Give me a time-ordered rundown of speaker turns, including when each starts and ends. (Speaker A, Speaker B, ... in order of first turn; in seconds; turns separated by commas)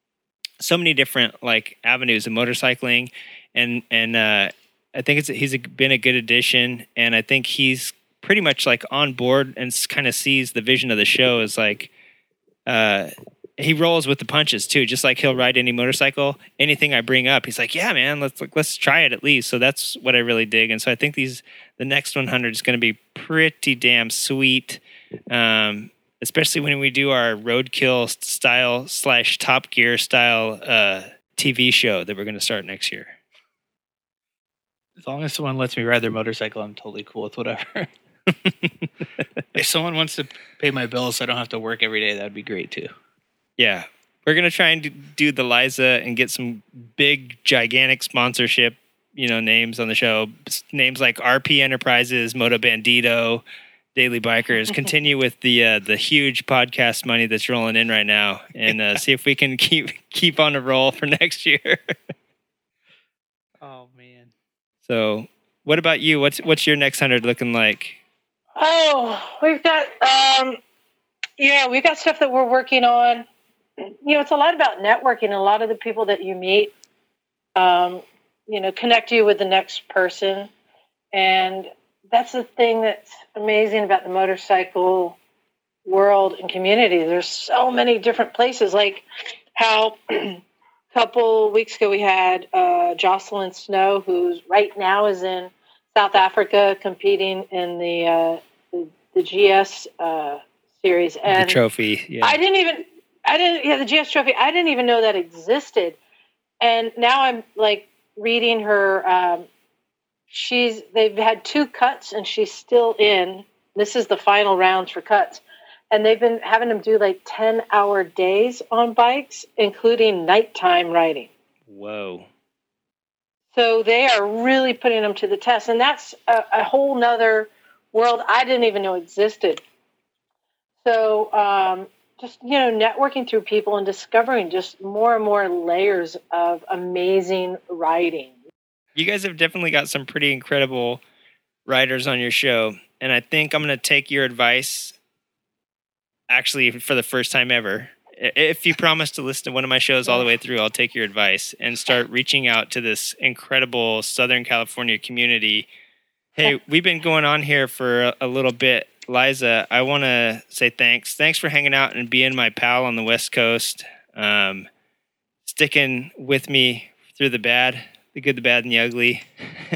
Speaker A: 0.6-11.9, Speaker A: 12.7-33.1, Speaker B: 35.0-37.9, Speaker B: 39.6-42.9, Speaker A: 43.6-53.4, Speaker A: 54.0-61.9, Speaker B: 63.6-64.3, Speaker A: 64.9-68.0, Speaker C: 68.6-70.6, Speaker C: 71.4-73.3, Speaker C: 74.0-76.7, Speaker C: 77.6-80.5, Speaker C: 81.1-85.2, Speaker C: 85.9-89.0, Speaker C: 89.6-90.4, Speaker C: 90.9-101.6, Speaker A: 101.3-102.4, Speaker C: 102.2-106.0, Speaker C: 106.6-109.5, Speaker C: 110.3-121.3, Speaker A: 121.7-122.3, Speaker C: 123.5-129.6, Speaker C: 130.8-138.4, Speaker A: 139.0-141.0, Speaker A: 141.7-144.9, Speaker A: 146.3-155.7, Speaker A: 156.4-164.7, Speaker A: 165.5-169.3